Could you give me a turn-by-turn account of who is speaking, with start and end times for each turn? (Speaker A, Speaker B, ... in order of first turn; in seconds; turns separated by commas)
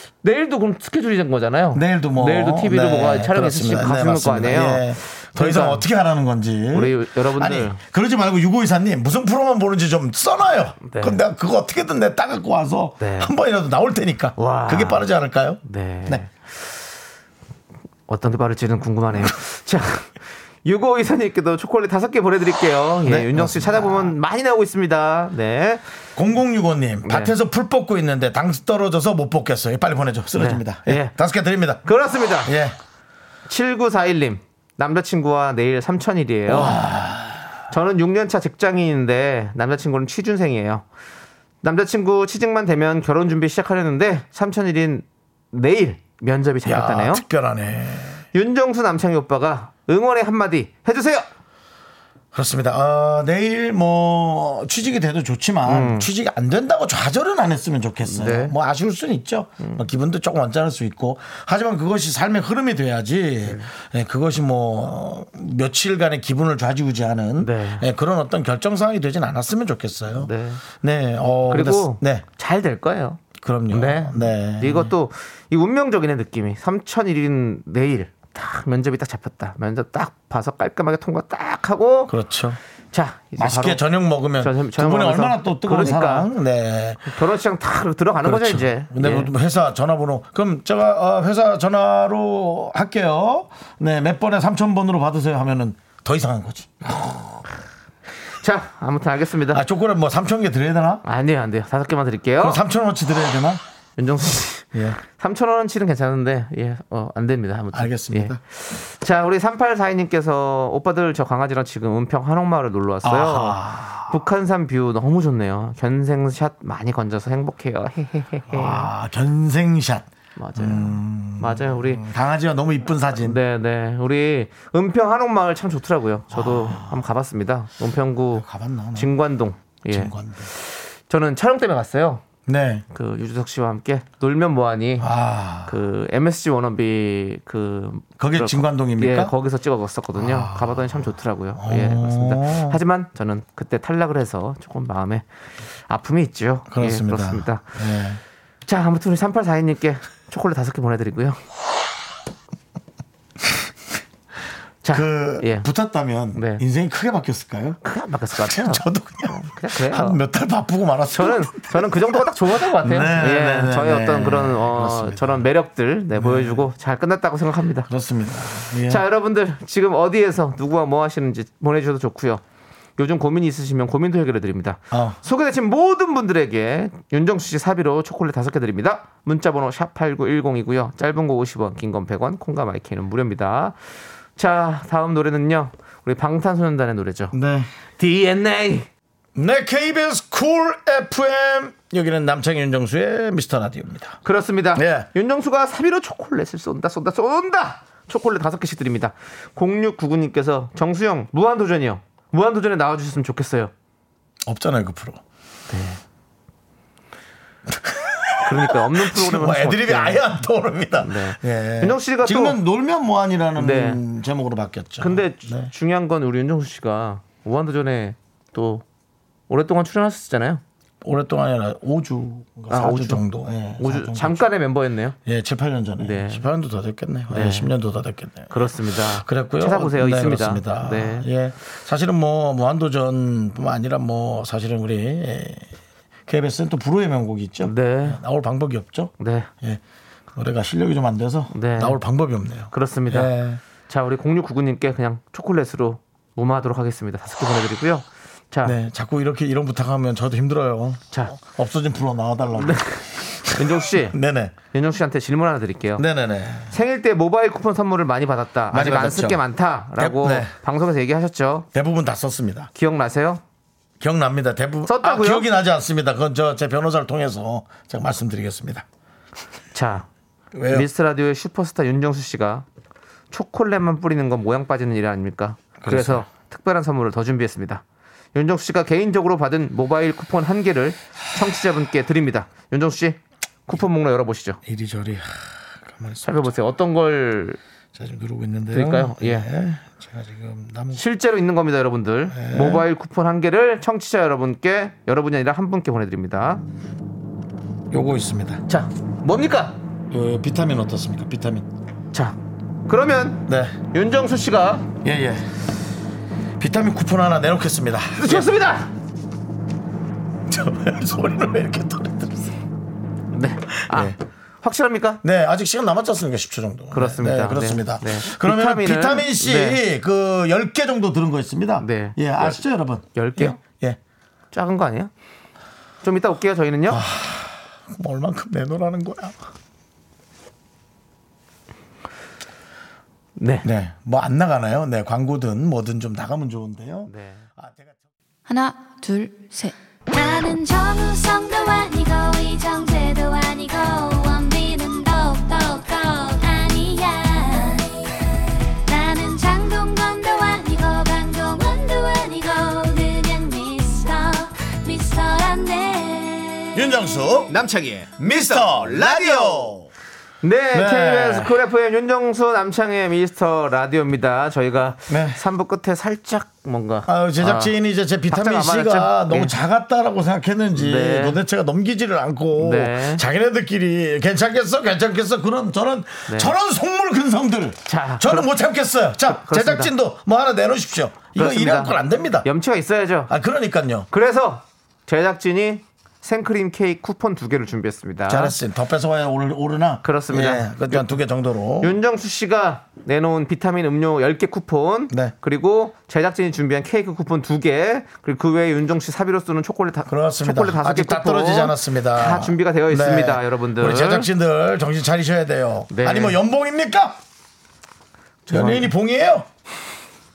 Speaker A: 0.2-5.8, Speaker B: 1.7-16.2, Speaker A: 6.7-7.8, Speaker A: 10.8-11.2, Speaker A: 13.0-13.3, Speaker A: 14.4-15.1, Speaker A: 15.6-16.5, Speaker A: 18.1-25.8, Speaker B: 23.0-24.1, Speaker B: 26.1-31.8, Speaker A: 27.0-27.3, Speaker A: 30.3-31.1, Speaker A: 31.8-32.5, Speaker B: 32.4-32.8, Speaker A: 33.5-36.8, Speaker B: 36.5-37.5, Speaker A: 37.7-40.8, Speaker A: 41.6-47.2, Speaker B: 46.6-48.2, Speaker A: 48.3-51.2, Speaker B: 52.3-72.2, Speaker A: 55.6-56.1, Speaker A: 58.0-58.5, Speaker A: 67.4-67.9, Speaker A: 70.2-70.6, Speaker A: 71.5-82.1, Speaker B: 73.3-74.9, Speaker B: 82.1-82.6, Speaker A: 82.9-83.8, Speaker B: 83.3-87.2, Speaker A: 84.4-86.3, Speaker A: 87.0-89.3, Speaker B: 88.2-96.9, Speaker A: 96.8-97.5, Speaker A: 98.2-99.6, Speaker B: 99.5-101.0, Speaker A: 101.0-102.6, Speaker B: 102.4-103.6, Speaker A: 104.0-118.9, Speaker B: 104.7-105.0, Speaker B: 107.7-108.4, Speaker B: 113.0-114.1, Speaker B: 118.5-123.4, Speaker A: 120.3-122.0, Speaker A: 123.1-132.2, Speaker B: 126.3-127.0, Speaker B: 128.4-129.1, Speaker B: 129.9-130.5, Speaker B: 132.5-132.8, Speaker A: 132.9-135.1, Speaker B: 135.0-135.7, Speaker A: 135.7-145.3, Speaker B: 138.2-139.3, Speaker B: 140.1-142.8, Speaker A: 145.9-147.8, Speaker B: 146.7-148.2, Speaker A: 148.7-151.4, Speaker A: 154.8-155.7, Speaker B: 154.9-157.8, Speaker A: 156.3-156.6, Speaker A: 157.8-160.2, Speaker B: 158.3-165.5, Speaker A: 161.2-167.9, Speaker B: 166.1-166.7, Speaker B: 167.9-169.0, Speaker A: 168.9-172.4, Speaker A: 173.0-187.3, Speaker B: 174.9-175.2, Speaker B: 187.3-187.7, Speaker A: 188.0-188.9, Speaker B: 189.3-194.2, Speaker A: 194.2-203.7, Speaker B: 194.7-195.1, Speaker B: 204.4-205.2, Speaker A: 205.7-206.0, Speaker B: 207.7-215.7, Speaker A: 208.4-210.2, Speaker A: 211.0-212.6, Speaker A: 213.6-214.0, Speaker A: 215.0-218.8, Speaker A: 219.5-220.6, Speaker B: 221.0-224.5, Speaker A: 222.7-223.2, Speaker A: 223.8-225.2, Speaker B: 225.2-235.7, Speaker A: 226.0-226.4, Speaker A: 227.3-227.7, Speaker A: 228.5-231.3, Speaker B: 236.3-239.8, Speaker A: 237.6-238.2, Speaker A: 239.2-239.5, Speaker B: 240.3-243.6, Speaker A: 241.5-242.0, Speaker A: 242.7-248.8, Speaker B: 248.6-254.5, Speaker A: 251.1-251.4, Speaker A: 252.6-254.2, Speaker A: 254.7-256.0, Speaker B: 256.0-256.8, Speaker A: 256.7-261.7, Speaker B: 258.7-259.4, Speaker B: 260.0-260.5, Speaker B: 261.7-262.7, Speaker A: 262.7-263.4, Speaker B: 264.0-268.9, Speaker A: 264.9-265.5, Speaker A: 269.7-270.1, Speaker B: 270.5-270.9, Speaker A: 270.7-272.6, Speaker A: 273.3-277.8, Speaker B: 275.8-276.3, Speaker A: 278.3-284.6, Speaker B: 284.6-286.5, Speaker A: 286.2-287.6, Speaker B: 287.9-291.0, Speaker A: 288.7-289.5, Speaker A: 290.9-296.6, Speaker B: 292.3-292.9, Speaker B: 297.9-298.6, Speaker A: 298.7-299.8, Speaker B: 300.1-301.7, Speaker A: 302.1-304.9, Speaker B: 303.5-303.8, Speaker B: 305.0-305.5, Speaker B: 306.6-308.5, Speaker A: 308.2-308.9, Speaker B: 310.5-312.6, Speaker A: 313.3-315.2, Speaker B: 313.7-314.1, Speaker B: 315.2-324.0, Speaker A: 316.9-319.8, Speaker A: 321.8-322.6, Speaker A: 323.1-323.6, Speaker A: 324.5-325.1, Speaker A: 326.0-327.0, Speaker B: 326.9-329.4, Speaker A: 333.4-333.7, Speaker B: 333.6-338.0, Speaker A: 337.1-337.4, Speaker C: 340.1-348.0, Speaker C: 348.8-356.8, Speaker B: 356.7-357.6, Speaker A: 357.5-359.7, Speaker B: 358.2-359.9, Speaker A: 360.4-367.7, Speaker B: 360.7-361.6, Speaker B: 365.1-365.4, Speaker B: 367.1-382.4, Speaker A: 368.3-369.5, Speaker A: 370.7-371.4, Speaker A: 372.6-373.2, Speaker A: 376.3-376.5, Speaker A: 377.9-378.5, Speaker A: 379.2-379.9, Speaker A: 381.3-383.3, Speaker B: 383.3-384.1, Speaker A: 384.1-388.5, Speaker B: 388.3-391.9, Speaker A: 390.0-391.1, Speaker A: 391.8-404.3, Speaker B: 400.1-407.2, Speaker A: 405.9-406.4, Speaker A: 408.5-408.9, Speaker B: 408.5-409.5